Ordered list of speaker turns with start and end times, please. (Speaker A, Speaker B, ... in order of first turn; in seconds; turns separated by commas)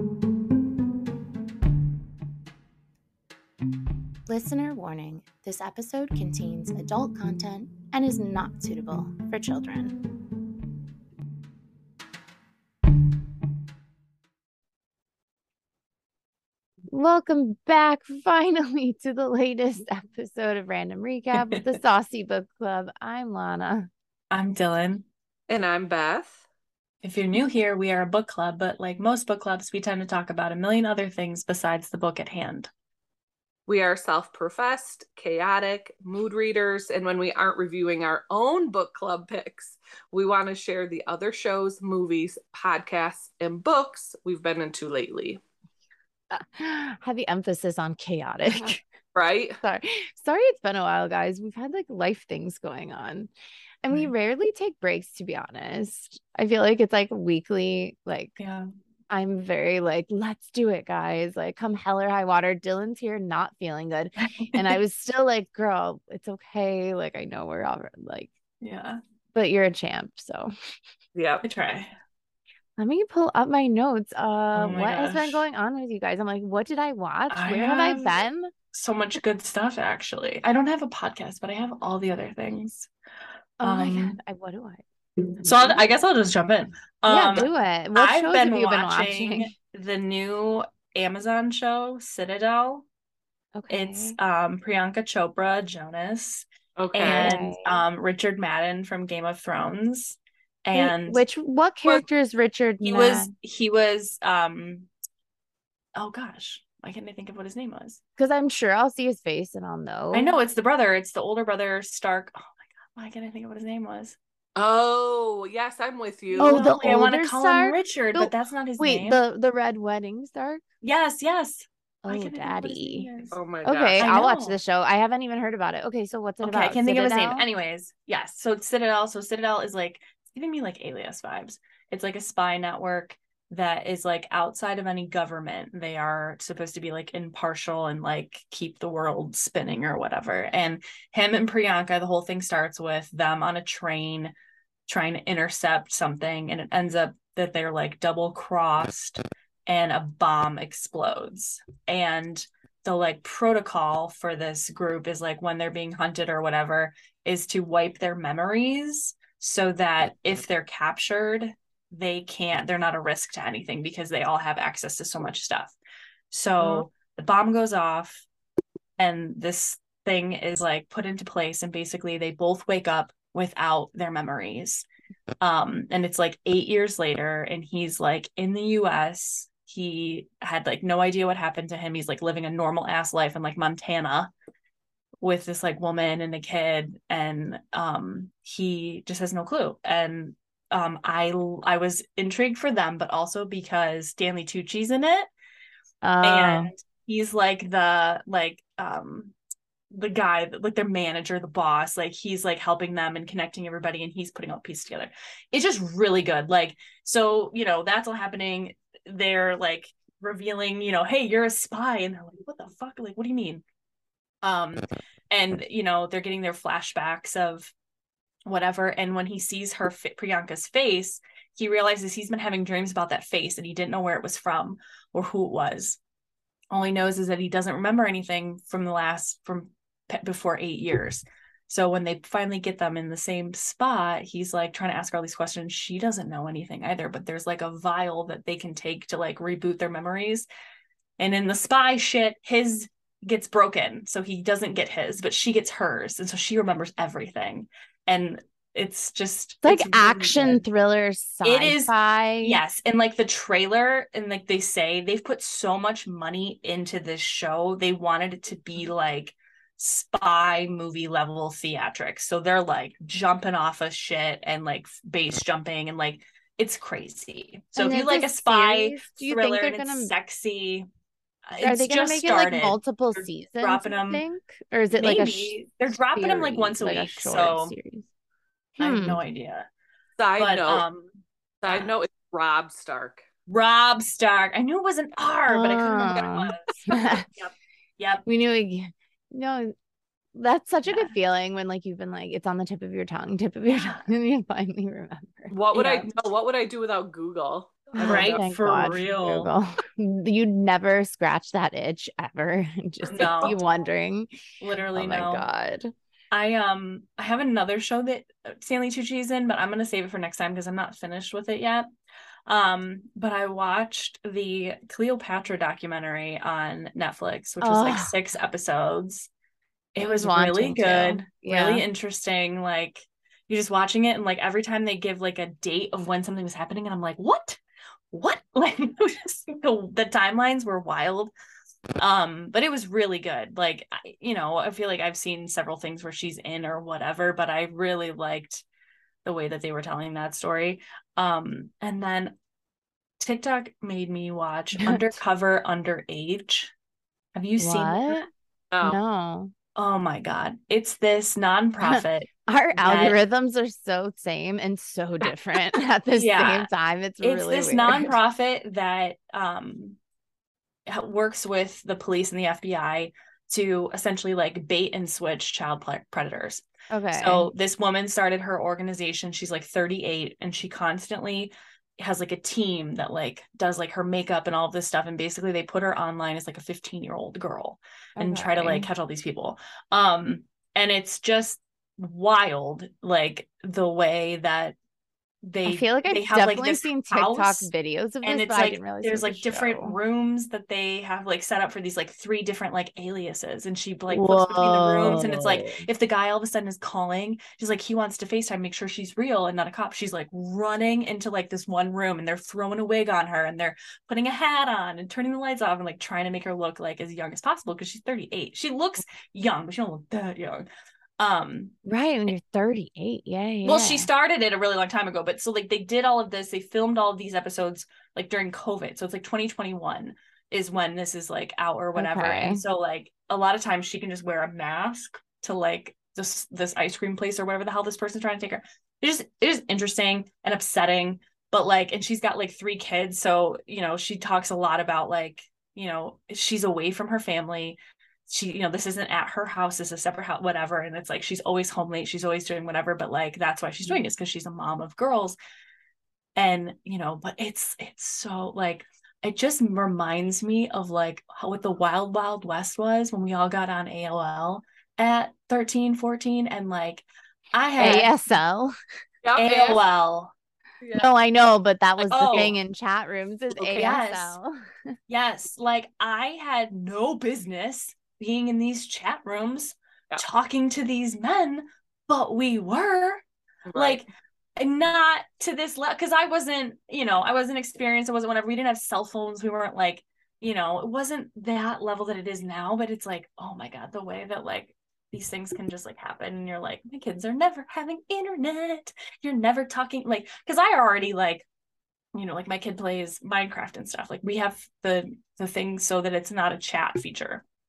Speaker A: 4.3-10.0, Speaker A: 16.9-23.9, Speaker B: 24.3-25.1, Speaker C: 25.5-26.4, Speaker B: 27.0-32.7, Speaker C: 33.7-45.4, Speaker A: 46.3-48.8, Speaker C: 49.1-49.6, Speaker A: 49.6-53.3, Speaker A: 53.8-58.4, Speaker B: 58.4-58.7, Speaker A: 59.1-68.3, Speaker B: 64.2-64.8, Speaker B: 68.6-69.0, Speaker A: 69.3-70.5, Speaker C: 71.2-71.5, Speaker B: 71.4-71.9, Speaker A: 72.8-78.5, Speaker B: 74.5-75.4, Speaker B: 77.3-78.2, Speaker B: 78.7-82.9, Speaker A: 83.6-84.8, Speaker B: 83.6-84.2, Speaker A: 85.4-85.8, Speaker B: 85.4-92.8, Speaker A: 87.1-89.5, Speaker A: 93.6-94.2, Speaker B: 93.7-101.2, Speaker C: 96.8-97.4, Speaker A: 97.0-97.8, Speaker A: 100.7-103.3, Speaker B: 102.8-104.9, Speaker B: 106.0-108.0, Speaker A: 108.2-110.3, Speaker B: 110.1-114.2, Speaker C: 114.5-116.7, Speaker B: 116.4-119.2, Speaker A: 116.4-120.6, Speaker B: 120.8-123.4, Speaker A: 122.0-123.1, Speaker C: 123.3-124.2, Speaker A: 123.7-127.5, Speaker B: 124.0-124.6, Speaker B: 126.4-144.3, Speaker B: 144.9-165.8, Speaker B: 166.3-168.2, Speaker B: 169.0-174.8, Speaker B: 175.4-184.3, Speaker B: 185.2-195.3, Speaker A: 196.0-196.7, Speaker B: 196.2-199.3, Speaker B: 199.9-213.6, Speaker B: 214.4-217.7, Speaker B: 218.5-226.0, Speaker B: 226.7-240.5, Speaker B: 241.2-250.6, Speaker A: 249.6-252.6, Speaker B: 251.4-270.9, Speaker A: 267.8-270.1, Speaker B: 271.5-274.2, Speaker A: 271.6-278.1, Speaker B: 274.9-277.7, Speaker B: 278.8-279.7, Speaker A: 278.8-279.2, Speaker C: 280.2-280.9, Speaker B: 280.4-281.9, Speaker C: 281.6-283.3, Speaker B: 283.5-288.2, Speaker A: 285.5-287.2, Speaker A: 288.3-289.7, Speaker A: 290.4-295.6, Speaker B: 290.9-291.1, Speaker B: 293.7-294.1, Speaker C: 295.5-298.4, Speaker B: 295.8-296.1, Speaker B: 298.0-299.5, Speaker A: 298.0-304.3, Speaker B: 303.0-303.6, Speaker C: 303.2-303.5, Speaker B: 304.6-305.5, Speaker A: 304.9-305.9, Speaker B: 306.3-311.9, Speaker B: 312.5-319.3, Speaker A: 317.6-318.1, Speaker B: 319.9-327.6, Speaker A: 320.0-321.8, Speaker B: 328.1-331.3, Speaker B: 332.0-338.6, Speaker B: 339.2-342.4, Speaker B: 343.2-346.7, Speaker A: 344.8-345.2, Speaker B: 347.3-348.2, Speaker A: 347.6-348.3, Speaker C: 348.7-349.0, Speaker A: 348.8-349.5, Speaker B: 349.8-352.3, Speaker A: 351.8-358.1, Speaker B: 352.8-353.2, Speaker B: 356.1-356.7, Speaker B: 357.2-360.0, Speaker B: 360.9-384.8, Speaker A: 366.9-367.5, Speaker A: 378.2-378.9, Speaker B: 385.4-387.7, Speaker A: 385.6-389.9, Speaker B: 388.2-410.7, Speaker A: 394.1-395.9, Speaker B: 411.2-411.7, Speaker A: 411.9-414.1, Speaker B: 413.6-445.4, Speaker A: 422.0-422.6, Speaker B: 446.4-458.1, Speaker A: 457.8-458.7, Speaker C: 459.2-459.8, Speaker B: 459.4-460.3, Speaker C: 460.8-461.1, Speaker A: 460.9-464.6, Speaker C: 462.0-462.6, Speaker B: 462.1-462.6, Speaker B: 463.6-464.4, Speaker B: 465.1-473.2, Speaker C: 473.7-474.0, Speaker B: 473.7-491.5, Speaker B: 492.1-497.4